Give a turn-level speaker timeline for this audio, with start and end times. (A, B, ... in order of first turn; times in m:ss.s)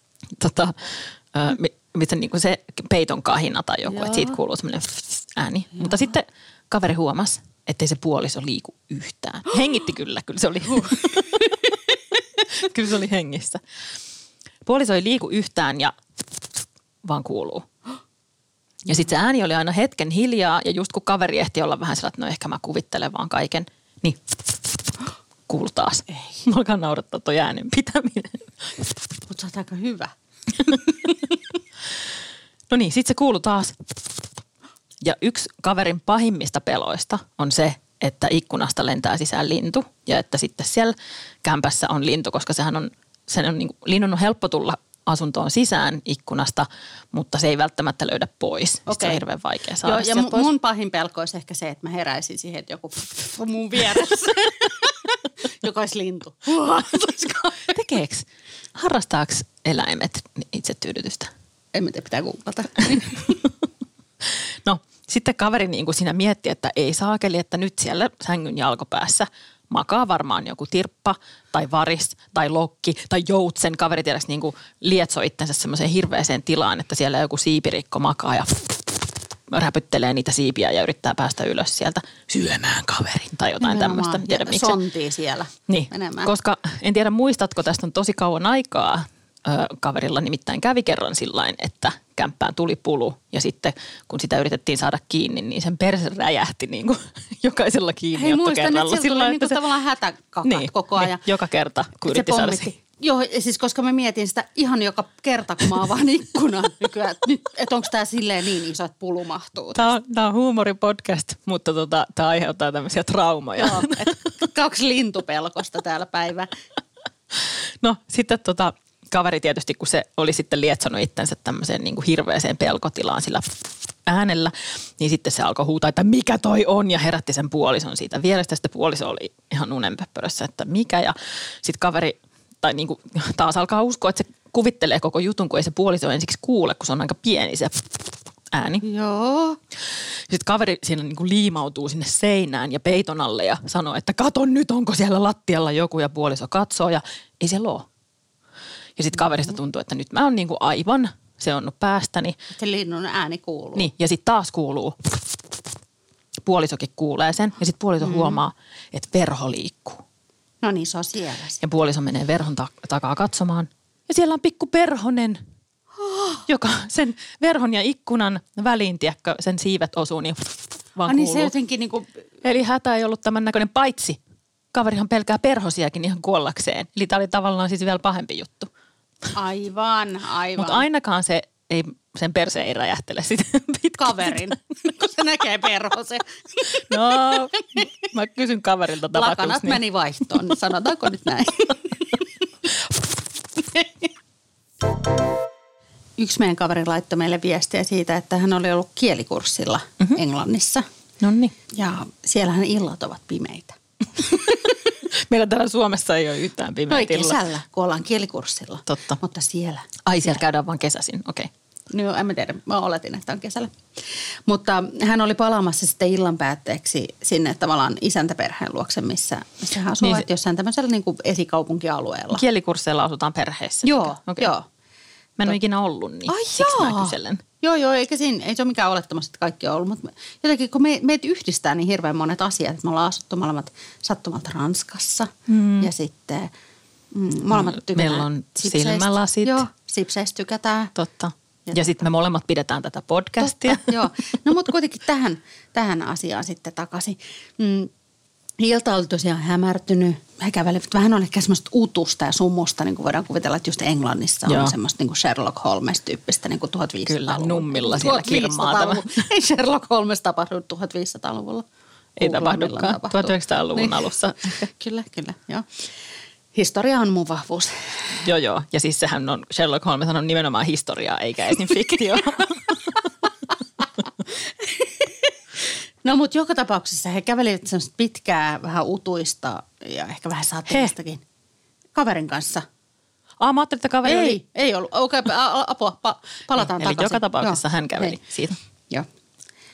0:00.4-0:11.7 A
0:03.9-0:04.4 B
0:12.5-0:13.6 A
0:14.6-0:15.9 A
0:17.0-0:17.7 A
0:18.9-0:24.2 A
0:25.5-0:28.5 A
0:29.3-0:30.1 B
0:32.7-0:33.8 A
0:35.0-0:50.5 A
0:48.9-0:49.2 B
0:49.8-0:57.8 B
0:57.7-1:01.3 A
1:01.7-1:03.4 B
1:04.6-1:24.8 A
1:23.6-1:26.3 B
1:25.7-1:39.6 A
1:38.1-1:41.2 B
1:40.4-1:42.7 A
1:42.0-1:49.9 B
1:49.7-1:54.2 A
1:53.6-1:56.5 B
1:57.8-2:18.9 A
2:18.8-2:19.6 B
2:20.3-2:27.9 A
2:29.0-2:32.4 A
2:32.5-2:33.9 B
2:33.8-2:35.0 A
2:36.4-2:40.0 A
2:38.0-2:38.4 B
2:40.6-2:41.6 B
2:41.6-2:45.4 A
2:46.0-2:46.4 B
2:46.5-2:51.5 A
2:51.1-2:52.1 B
2:52.4-2:54.2 A
2:54.7-2:58.7 A
2:59.3-3:00.8 B
3:00.6-3:04.5 A
3:04.0-3:07.4 B
3:06.9-3:09.8 A
3:09.1-3:12.3 B
3:13.6-3:14.0 B
3:16.2-3:20.9 B
3:21.2-3:21.6 A
3:21.7-3:24.7 B
3:24.3-3:27.4 A
3:26.9-3:30.4 B
3:28.9-3:29.2 A
3:30.1-3:31.5 A
3:31.9-3:33.7 B
3:34.5-3:42.4 B
3:40.0-3:40.3 A
3:42.3-3:44.5 A
3:43.8-3:44.7 B
3:45.4-3:47.4 A
3:46.3-3:56.5 B
3:55.5-3:55.9 A
3:57.1-4:00.9 B
3:57.5-3:59.6 A
4:01.0-4:04.0 A
4:01.7-4:02.0 B
4:03.4-4:07.9 B
4:08.6-4:21.7 B
4:14.5-4:14.8 A
4:17.0-4:19.3 A
4:22.2-4:24.6 A
4:22.2-4:25.7 B
4:26.5-4:28.2 B
4:28.2-4:33.1 A
4:34.6-4:35.3 B
4:36.0-4:41.2 B
4:41.9-4:42.6 B
4:43.4-4:44.4 A
4:44.0-4:48.2 B
4:46.6-4:48.6 A